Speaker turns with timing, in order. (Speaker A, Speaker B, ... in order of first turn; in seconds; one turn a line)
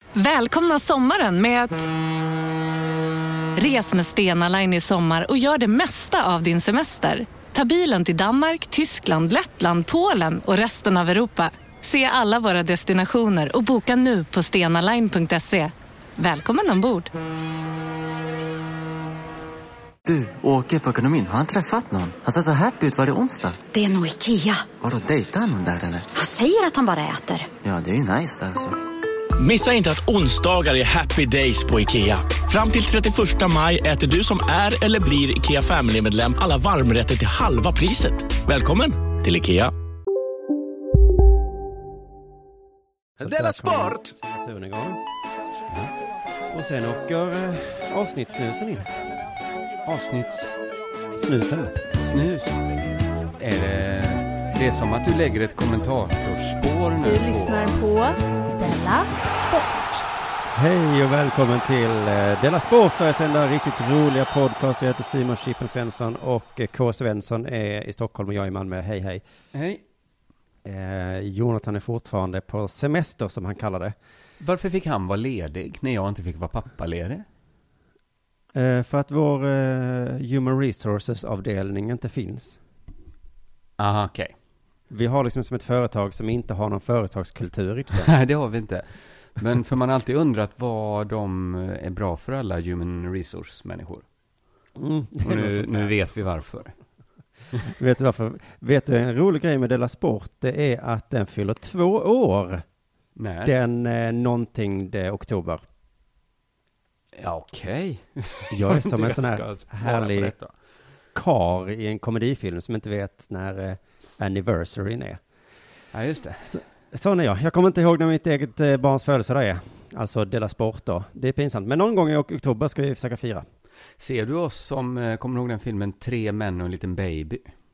Speaker A: 0.2-1.9
Speaker A: 3.6-17.1
Speaker B: 20.1-23.6
Speaker C: 23.7-24.7
Speaker B: 24.8-26.1
Speaker C: 26.1-27.5
Speaker B: 27.6-28.8
Speaker D: 29.4-39.7
Speaker E: 43.2-45.0
Speaker E: 46.5-49.2
Speaker F: 49.9-50.5
Speaker E: 51.2-51.9
Speaker F: 52.0-52.8
Speaker F: 53.4-57.8
Speaker G: 57.0-59.9
Speaker E: 60.5-69.2
Speaker F: 69.5-69.8
Speaker E: 70.7-74.0
Speaker F: 74.4-77.2
Speaker E: 78.5-82.6
Speaker F: 83.8-84.3
Speaker E: 84.9-88.1
Speaker F: 88.0-94.0
Speaker E: 94.8-95.9
Speaker F: 95.2-96.7
Speaker E: 97.7-102.6
Speaker F: 103.2-103.5
Speaker E: 103.4-105.7
Speaker F: 107.2-110.5
Speaker E: 108.5-110.3
Speaker E: 111.1-115.2
Speaker F: 115.9-116.6
Speaker E: 116.5-123.5
Speaker F: 124.0-127.4